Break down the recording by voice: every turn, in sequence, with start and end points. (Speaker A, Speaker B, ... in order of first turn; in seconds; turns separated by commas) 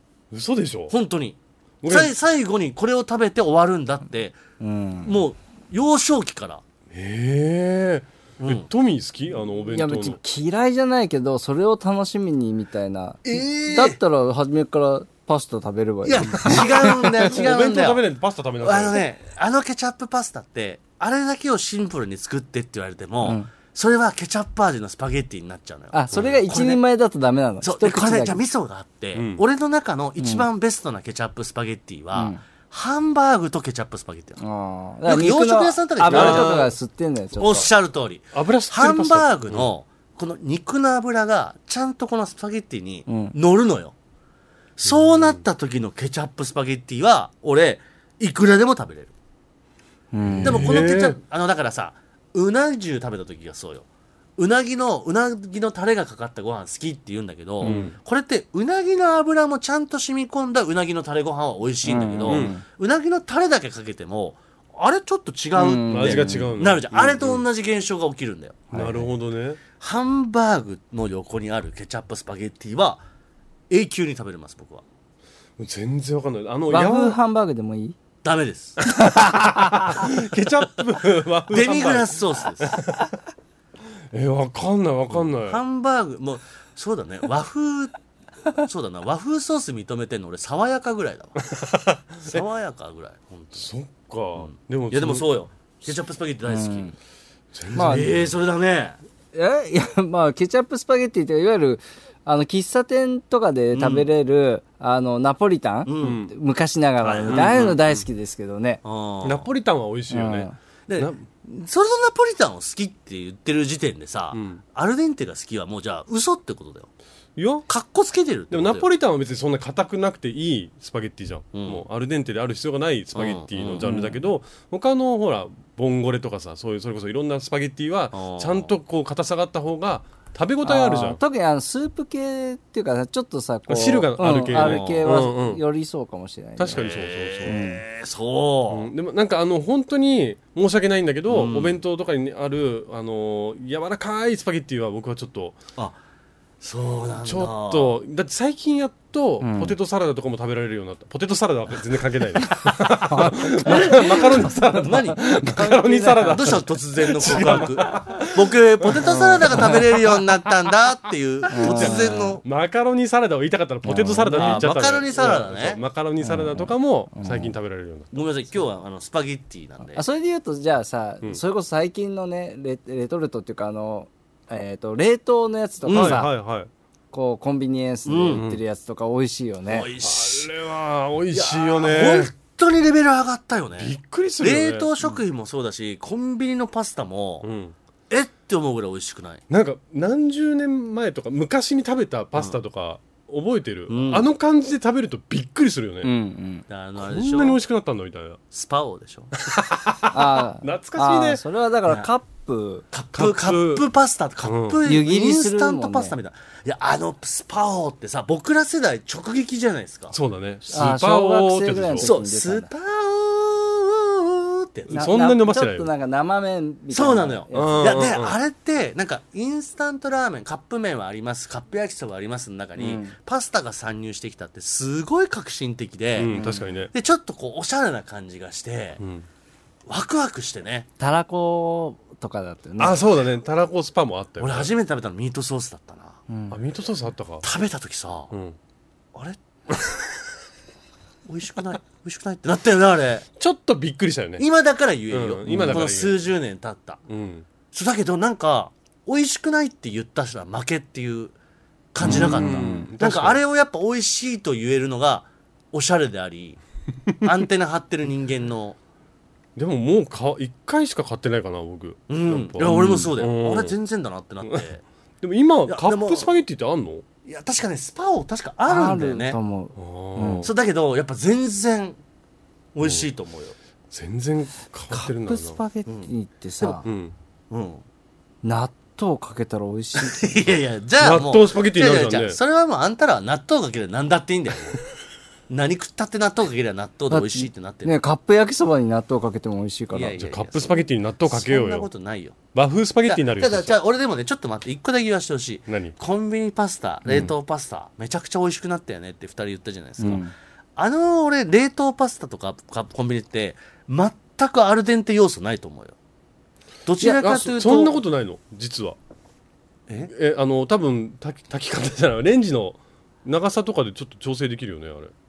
Speaker A: 0.3-0.9, Speaker B: 0.9-4.4, Speaker A: 1.8-2.1, Speaker C: 4.6-5.2, Speaker B: 5.0-6.6, Speaker A: 6.9-10.2, Speaker B: 8.4-8.7, Speaker C: 9.7-17.3, Speaker B: 13.2-14.0, Speaker B: 16.0-18.0, Speaker A: 17.2-19.0, Speaker B: 18.6-26.8, Speaker C: 23.2-23.5, Speaker C: 25.9-28.4, Speaker B: 27.6-34.4, Speaker A: 29.1-29.4, Speaker C: 30.2-30.4, Speaker C: 32.1-32.4, Speaker C: 34.4-37.7, Speaker B: 35.0-36.7, Speaker A: 36.1-36.7, Speaker B: 37.4-43.9, Speaker A: 38.3-39.7, Speaker C: 43.1-43.3, Speaker B: 44.8-49.1, Speaker C: 50.1-50.7, Speaker A: 50.2-51.2, Speaker B: 50.4-53.9, Speaker B: 54.4-68.7, Speaker C: 57.6-57.9, Speaker A: 57.6-58.0, Speaker C: 61.8-62.6, Speaker A: 62.2-62.5, Speaker C: 65.5-66.5, Speaker A: 65.8-67.4, Speaker C: 68.7-69.1, Speaker A: 68.7-69.6, Speaker B: 69.8-73.0, Speaker B: 73.7-74.8, Speaker A: 75.6-77.2, Speaker C: 76.7-78.0, Speaker B: 78.2-78.8, Speaker C: 78.9-79.5, Speaker A: 78.9-83.1, Speaker B: 81.5-82.8, Speaker A: 84.1-85.6, Speaker B: 85.1-87.9, Speaker B: 88.5-91.4, Speaker A: 91.5-92.4, Speaker B: 92.2-93.7, Speaker A: 93.5-95.2, Speaker B: 94.3-96.9, Speaker C: 96.5-96.9, Speaker A: 97.5-98.3, Speaker B: 97.7-99.0, Speaker C: 97.7-98.1, Speaker C: 99.3-108.8, Speaker B: 103.7-104.1, Speaker B: 105.8-106.2, Speaker A: 106.0-106.3, Speaker B: 107.0-107.8, Speaker A: 107.3-108.0, Speaker B: 108.8-109.5, Speaker A: 109.2-111.2, Speaker C: 110.1-110.5, Speaker B: 110.9-116.9, Speaker A: 114.3-114.6, Speaker A: 117.3-117.7, Speaker B: 117.7-118.9, Speaker A: 118.5-131.2, Speaker B: 121.5-121.8, Speaker B: 123.1-123.8, Speaker C: 123.8-124.2, Speaker B: 128.1-128.7, Speaker C: 130.6-136.8, Speaker A: 133.7-135.6, Speaker B: 134.5-135.1, Speaker A: 136.6-137.6, Speaker B: 136.7-138.9, Speaker C: 137.4-137.8, Speaker A: 138.7-145.6, Speaker B: 141.3-141.8, Speaker B: 146.6-147.9, Speaker A: 147.2-160.2, Speaker C: 149.4-149.7, Speaker C: 153.1-156.5, Speaker B: 153.6-155.3, Speaker B: 156.3-162.4, Speaker C: 161.5-162.4, Speaker A: 161.6-168.1, Speaker C: 163.8-164.7, Speaker B: 164.3-165.8, Speaker C: 166.2-167.5, Speaker B: 168.1-170.0, Speaker C: 169.9-176.3, Speaker B: 175.8-176.2, Speaker A: 175.9-176.7, Speaker C: 177.1-179.9, Speaker B: 178.1-178.4, Speaker A: 178.3-178.6, Speaker B: 179.7-180.5, Speaker A: 180.0-182.3, Speaker B: 181.3-187.5, Speaker A: 183.8-184.9, Speaker A: 187.4-187.7, Speaker B: 188.1-189.4, Speaker A: 189.5-196.1, Speaker B: 193.9-194.3, Speaker C: 196.0-196.6, Speaker B: 196.7-197.6, Speaker A: 197.0-198.4, Speaker B: 198.5-199.3, Speaker A: 199.4-201.4, Speaker C: 200.1-202.8, Speaker B: 202.9-210.2, Speaker A: 203.1-203.8, Speaker A: 204.4-204.8, Speaker C: 204.8-206.1, Speaker A: 210.1-212.1, Speaker C: 210.7-212.7, Speaker B: 212.0-214.9, Speaker A: 214.9-215.9, Speaker C: 214.9-217.9, Speaker B: 216.9-229.0, Speaker A: 217.5-218.3, Speaker C: 222.8-223.1, Speaker A: 226.2-226.9, Speaker C: 226.3-226.6, Speaker A: 229.0-229.2, Speaker B: 229.9-230.9, Speaker C: 231.0-233.0, Speaker A: 232.8-234.7, Speaker B: 234.4-236.2, Speaker C: 236.3-236.6, Speaker A: 236.5-237.4, Speaker B: 237.4-238.3, Speaker A: 238.3-238.6, Speaker B: 241.3-243.2, Speaker A: 243.4-244.4, Speaker B: 244.4-247.0, Speaker A: 245.1-246.2, Speaker C: 245.4-245.8, Speaker A: 247.1-247.4, Speaker B: 247.7-251.3, Speaker B: 251.9-256.6, Speaker A: 252.0-253.4, Speaker C: 252.0-252.9, Speaker B: 257.2-258.8, Speaker A: 259.6-263.8, Speaker B: 262.1-264.8, Speaker C: 262.6-263.1, Speaker A: 265.2-267.0, Speaker B: 265.7-266.4, Speaker B: 267.2-269.4, Speaker C: 268.7-270.5, Speaker A: 269.8-270.5, Speaker B: 270.4-272.0, Speaker B: 272.7-273.5, Speaker A: 273.9-275.6, Speaker C: 274.9-276.8, Speaker B: 275.9-276.8, Speaker A: 276.8-277.1, Speaker B: 277.5-277.8, Speaker C: 278.4-280.4, Speaker B: 280.0-284.8, Speaker A: 281.0-282.4, Speaker B: 285.5-287.9, Speaker C: 287.1-290.2, Speaker B: 289.9-292.4, Speaker A: 290.2-291.9, Speaker A: 292.5-293.7, Speaker B: 293.0-300.2, Speaker A: 295.7-295.9, Speaker C: 300.0-300.3, Speaker B: 300.8-305.9, Speaker B: 306.9-308.0, Speaker A: 307.0-308.9, Speaker A: 310.1-315.1